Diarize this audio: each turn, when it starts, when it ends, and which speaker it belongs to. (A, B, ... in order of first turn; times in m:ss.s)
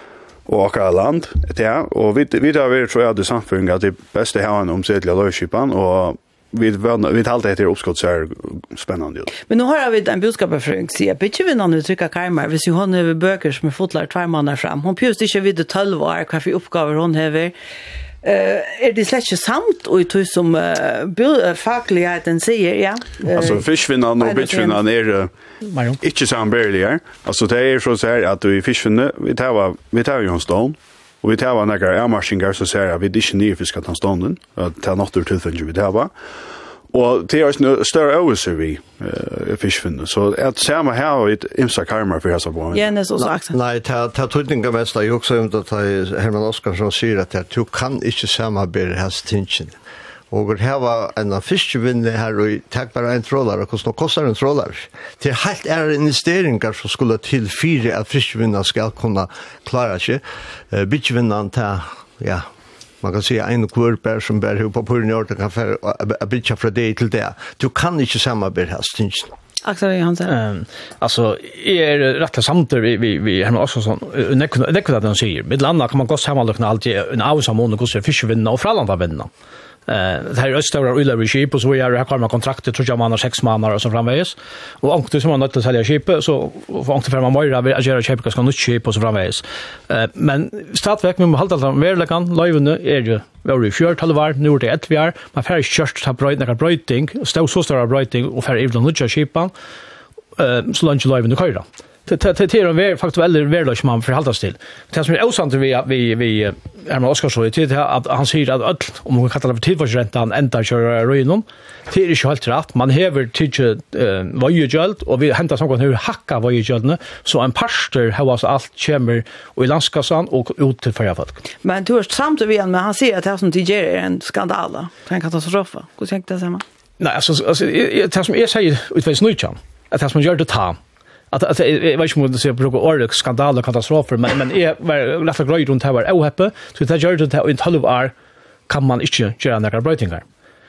0:00.5-0:09.3 A
0:09.5-0:17.5 B
0:18.2-0:24.8 B
0:23.2-0:25.3 A
0:25.6-0:26.0 C
0:26.0-0:36.1 A
0:36.9-0:42.9 A
0:42.7-0:43.6 B
0:43.2-0:49.8 D
0:50.3-1:02.5 D
1:03.0-1:09.3 D
1:09.6-1:10.3 B
1:10.3-1:19.3 C
1:19.9-1:39.5 C
1:40.4-2:01.4 C
2:01.6-2:06.6 B
2:07.0-2:10.8 C
2:11.3-2:18.1 C
2:18.7-2:20.2 C